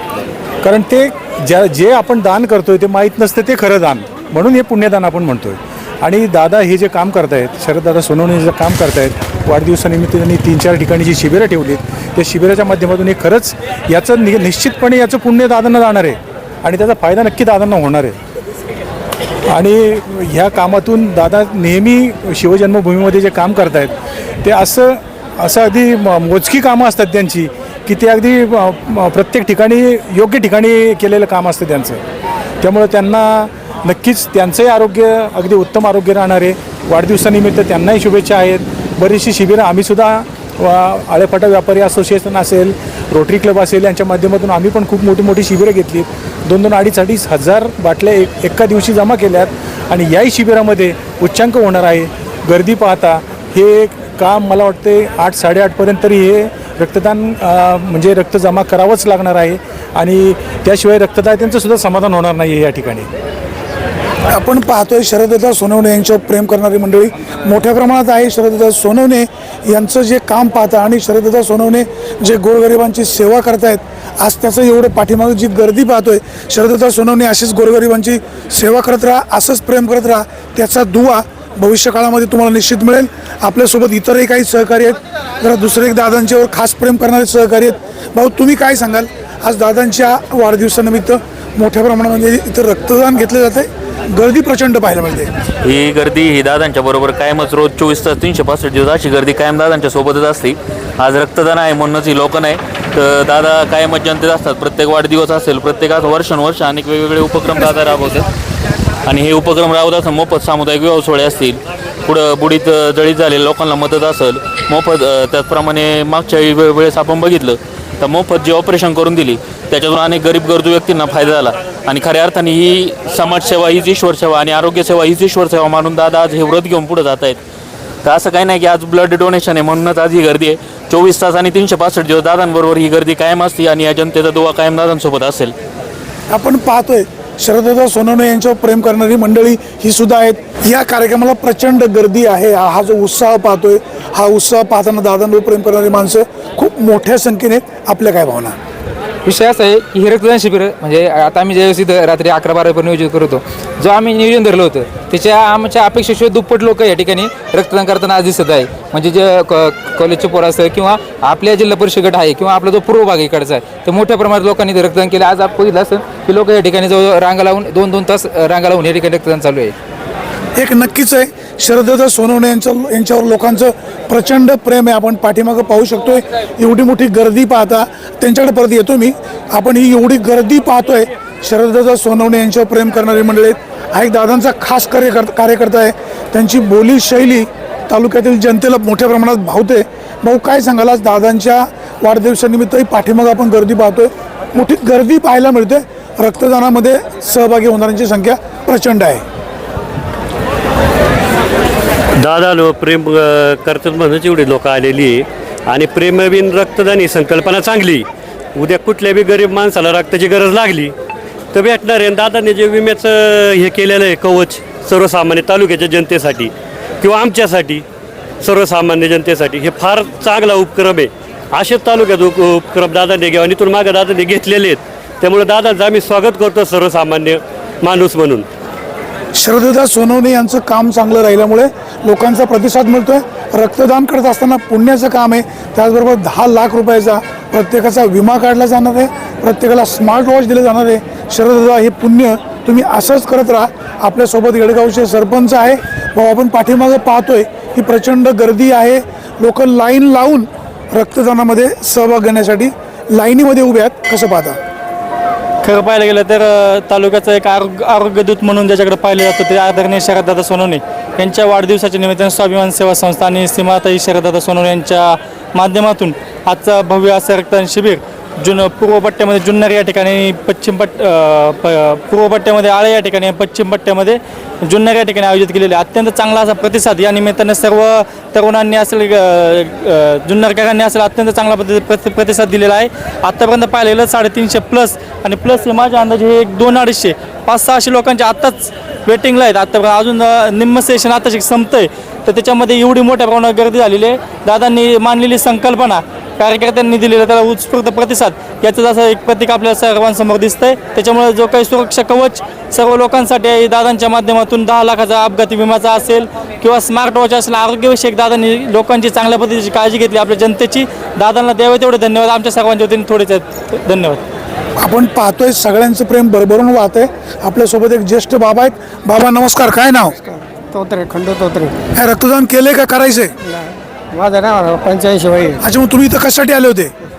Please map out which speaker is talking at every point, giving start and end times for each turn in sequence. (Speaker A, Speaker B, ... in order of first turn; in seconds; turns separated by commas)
Speaker A: 0.6-18.2, Speaker A: 19.5-32.0, Speaker A: 32.6-63.1, Speaker B: 64.3-95.3, Speaker C: 95.6-108.2, Speaker C: 109.0-127.4, Speaker C: 128.0-135.5, Speaker B: 136.3-148.6, Speaker D: 149.2-169.7, Speaker B: 170.6-199.2, Speaker E: 202.2-210.9, Speaker E: 211.5-217.8, Speaker E: 218.4-228.5, Speaker B: 229.3-254.6, Speaker F: 255.6-314.2, Speaker B: 314.8-320.1, Speaker G: 320.3-321.8, Speaker B: 321.9-323.3, Speaker G: 323.5-325.6, Speaker B: 325.6-326.9